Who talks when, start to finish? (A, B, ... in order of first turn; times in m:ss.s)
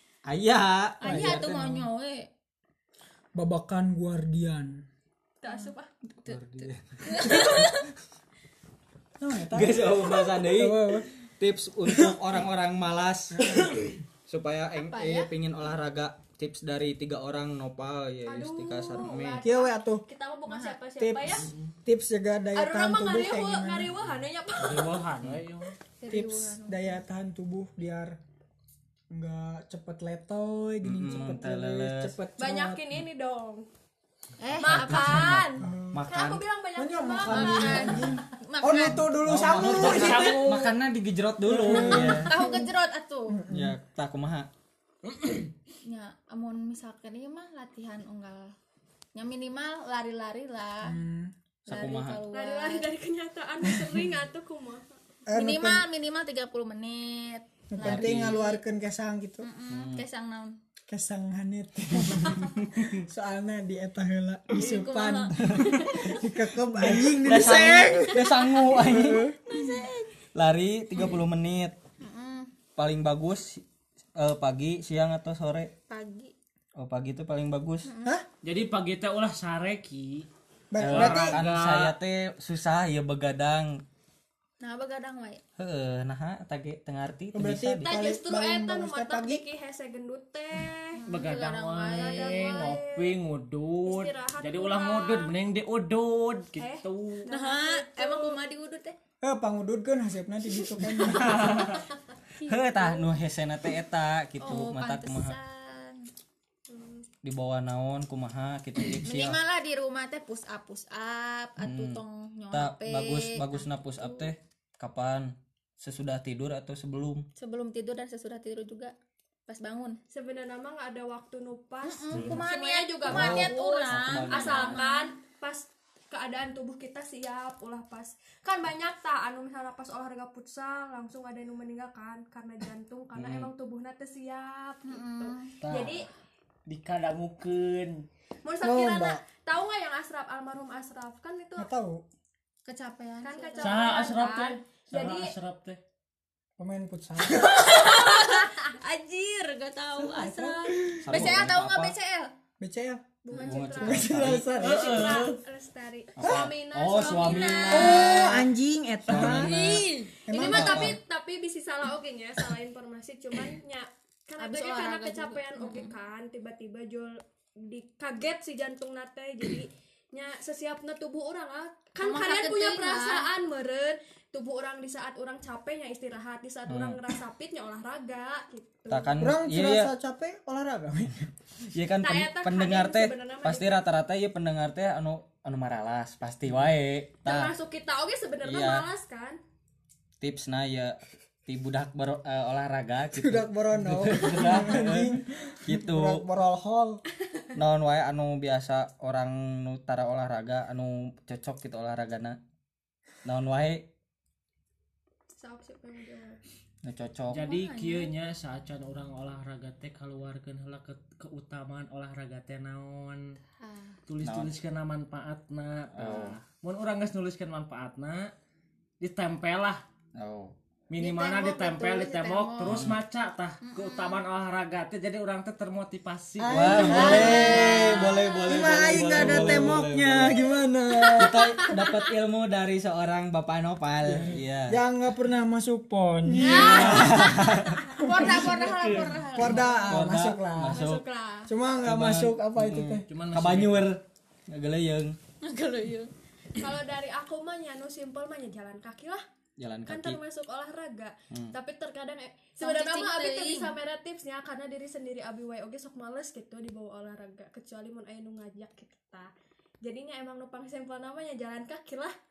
0:00.2-0:01.9 A
0:01.0-0:01.4 B
0:01.0-0:02.3 C
0:03.4-0:04.8 B
0:05.4-0:05.9 D
0:05.4-0:07.9 C
0:06.3-0:07.8 A
0:09.2-0:11.1 B
0:09.5-0:13.7 A
0:11.8-0:12.1 B
0:13.4-0:13.7 B
0:14.2-0:19.5 A
0:14.8-0:15.3 C
0:18.2-0:21.4 D
0:19.4-0:20.0 B
0:20.5-0:20.8 C
0:21.0-0:23.9 B
0:22.5-0:25.0 D
0:24.6-0:25.8 E
0:26.0-0:27.0 C
0:26.1-0:28.2 B
0:29.1-0:32.8 B
0:30.8-0:32.1 A
0:32.4-0:33.6 D
0:34.4-0:35.4 C
0:34.6-0:36.4 A
0:34.6-0:38.1 D
0:35.6-0:36.1 B
0:36.8-0:40.5 B
0:37.3-0:39.1 C
0:39.2-0:42.4 A
0:39.6-0:40.8 E
0:41.4-0:42.7 B
0:41.8-0:43.4 C
0:43.3-0:43.7 B
0:43.5-0:44.5 A
0:45.0-0:45.5 E
0:45.8-0:48.5 C
0:49.1-0:51.0 C
0:50.8-0:51.3 B
0:51.6-0:52.9 C
0:51.7-0:52.3 A
0:52.3-0:54.9 D
0:55.3-0:55.8 B
0:55.3-0:58.6 C
0:57.7-0:59.5 B
0:57.8-0:58.3 A
0:59.4-1:00.6 C
0:59.7-1:00.0 A
1:00.9-1:09.4 B
1:02.0-1:03.0 A
1:04.6-1:06.2 C
1:05.4-1:05.7 A
1:06.9-1:09.3 A
1:09.5-1:10.1 C
1:10.3-1:11.8 A
1:12.0-1:12.5 C
1:12.8-1:13.6 A
1:14.2-1:15.7 A
1:15.9-1:16.3 C
1:16.8-1:17.9 A
1:17.8-1:18.2 C
1:18.4-1:20.2 E
1:20.7-1:21.4 B
1:20.8-1:23.8 A
1:20.8-1:21.9 E
1:24.6-1:25.4 C
1:25.6-1:27.9 A
1:27.3-1:29.4 B
1:27.8-1:31.0 D
1:31.0-1:32.7 C
1:31.1-1:37.2 E
1:31.9-1:33.2 D
1:33.8-1:35.3 D
1:36.6-1:38.4 D
1:37.3-1:39.0 C
1:39.2-1:41.7 B
1:41.2-1:41.8 E
1:42.4-1:43.1 C
1:42.4-1:45.4 A
1:44.4-1:46.1 C
1:46.7-1:47.1 D
1:47.2-1:49.4 A
1:49.0-1:54.3 C
1:51.6-1:52.0 A
1:52.5-1:57.2 A
1:57.4-1:58.9 C
1:59.5-2:00.0 C
2:00.1-2:16.1 D
2:01.8-2:05.1 C
2:02.1-2:02.4 A
2:03.0-2:04.8 A
2:13.1-2:13.5 A
2:14.8-2:15.6 C
2:15.6-2:16.1 E
2:16.7-2:18.0 E
2:18.4-2:21.7 D
2:18.6-2:19.2 B
2:21.6-2:22.0 B
2:22.6-2:24.1 C
2:23.2-2:25.3 D
2:23.6-2:25.8 E
2:26.6-2:27.6 B
2:27.3-2:32.3 C
2:27.6-2:28.6 D
2:30.0-2:31.4 B
2:31.0-2:31.9 A
2:32.6-2:35.2 B
2:33.2-2:38.0 D
2:33.3-2:35.2 A
2:34.6-2:35.4 E
2:36.2-2:38.5 A
2:36.2-2:36.5 B
2:36.9-2:38.3 C
2:37.7-2:39.5 B
2:39.1-2:41.0 A
2:39.2-2:40.2 C
2:40.2-2:41.0 B
2:40.3-2:59.2 D
2:44.4-2:45.9 C
2:52.0-2:53.3 C
2:56.7-2:57.0 A
2:58.9-2:59.9 A
2:59.2-3:01.3 B
3:01.7-3:07.5 A
3:02.0-3:03.8 D
3:07.2-3:09.4 D
3:08.4-3:08.8 A
3:10.2-3:16.2 A
3:13.1-3:17.0 B
3:17.6-3:22.4 A
3:23.2-3:23.9 A
3:25.4-3:26.4 D
3:26.8-3:27.5 A
3:27.3-3:33.4 E
3:27.4-3:28.1 C
3:33.6-3:34.0 C
3:34.1-3:38.3 E
3:34.2-3:34.5 A
3:35.9-3:36.4 A
3:39.0-3:39.8 E
3:40.2-3:40.5 A
3:40.9-3:47.2 E
3:41.0-3:42.9 C
3:42.6-3:43.0 A
3:43.6-3:44.2 C
3:46.4-3:51.4 B
3:46.5-3:50.4 A
3:46.8-3:49.7 C
3:47.2-3:47.9 D
3:51.2-3:54.8 A
3:51.6-3:51.9 D
3:54.0-3:57.1 B
3:56.4-3:59.6 D
3:56.4-4:00.1 C
3:56.6-3:57.8 A
3:58.1-3:58.6 B
3:58.6-3:59.1 E
3:59.3-4:00.8 B
3:59.9-4:01.0 A
4:00.6-4:01.5 D
4:01.5-4:03.0 B
4:01.8-4:05.2 A
4:03.1-4:03.9 E
4:05.4-4:06.1 C
4:06.6-4:09.2 D
4:09.6-4:10.2 A
4:09.8-4:19.3 D
4:12.6-4:13.7 C
4:19.8-4:22.1 D